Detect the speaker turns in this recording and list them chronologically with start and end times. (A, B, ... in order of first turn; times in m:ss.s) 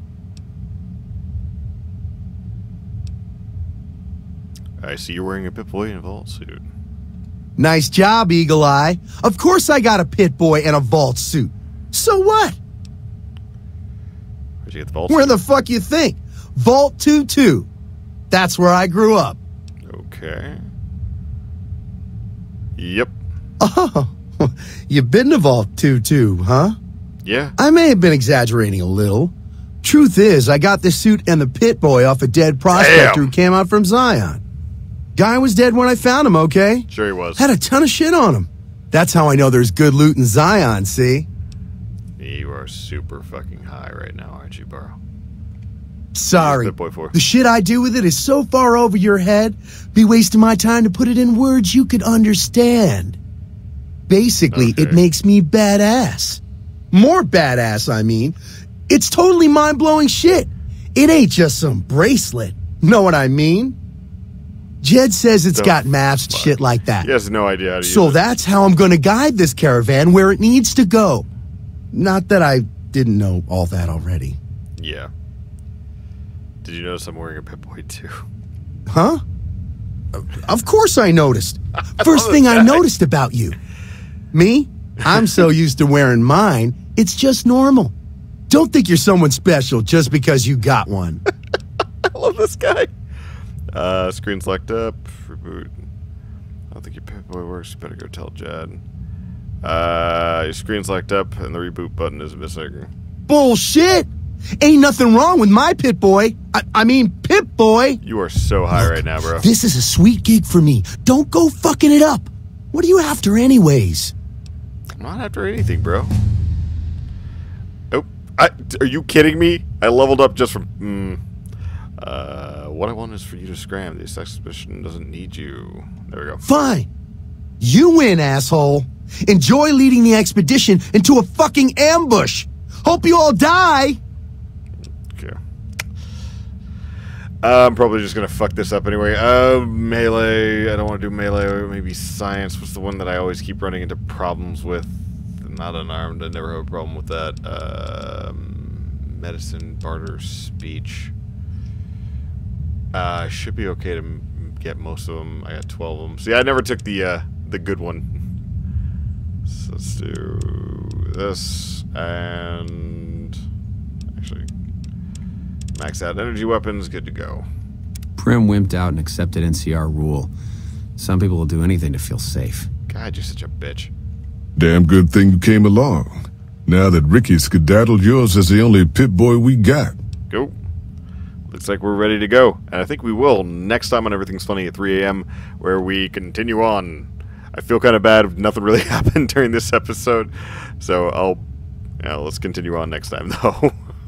0:04.8-0:06.6 A
0:07.6-0:12.6 B
0:14.6-0:15.4 A
0:15.1-0:17.7 B
0:18.3-0:19.4 B
0:19.9-0:20.6 A
0:22.8-0:23.1 A
0:23.6-0:26.8 B
0:27.2-0:27.6 A
0:27.6-0:29.3 B
0:29.8-0:34.4 B
0:32.7-0:33.3 A
0:35.2-0:41.3 B
0:36.9-0:37.5 A
0:42.2-0:45.0 A
0:46.1-0:53.2 B
0:46.4-0:47.2 A
0:54.1-0:56.4 B
0:54.5-0:55.0 A
0:56.9-0:58.4 B
0:58.9-1:03.8 B
1:04.8-1:07.1 B
1:05.5-1:08.2 A
1:07.8-1:11.2 B
1:11.9-1:14.4 B
1:14.8-1:15.1 A
1:16.6-1:18.2 A
1:18.9-1:19.2 B
1:20.2-1:23.6 B
1:22.0-1:22.8 A
1:24.3-1:27.9 B
1:28.5-1:31.2 B
1:32.1-1:32.9 A
1:33.8-1:35.7 A
1:36.7-1:38.8 A
1:39.6-1:42.9 A
1:43.3-1:44.1 B
1:44.6-1:48.0 B
1:48.0-1:49.5 A
1:48.7-1:54.1 B
1:55.0-1:56.1 A
1:57.9-2:01.2 A
2:02.0-2:06.7 A
2:06.4-2:06.9 B
2:07.6-2:14.0 B
2:17.4-2:31.1 A
2:32.9-2:38.0 A
2:39.5-2:43.4 A
2:44.2-2:44.5 A
2:45.8-2:47.5 A
2:48.2-2:50.3 C
2:51.0-2:52.7 C
2:52.9-2:53.9 A
2:54.6-3:00.0 D
3:01.5-3:11.4 A
3:12.0-3:13.8 A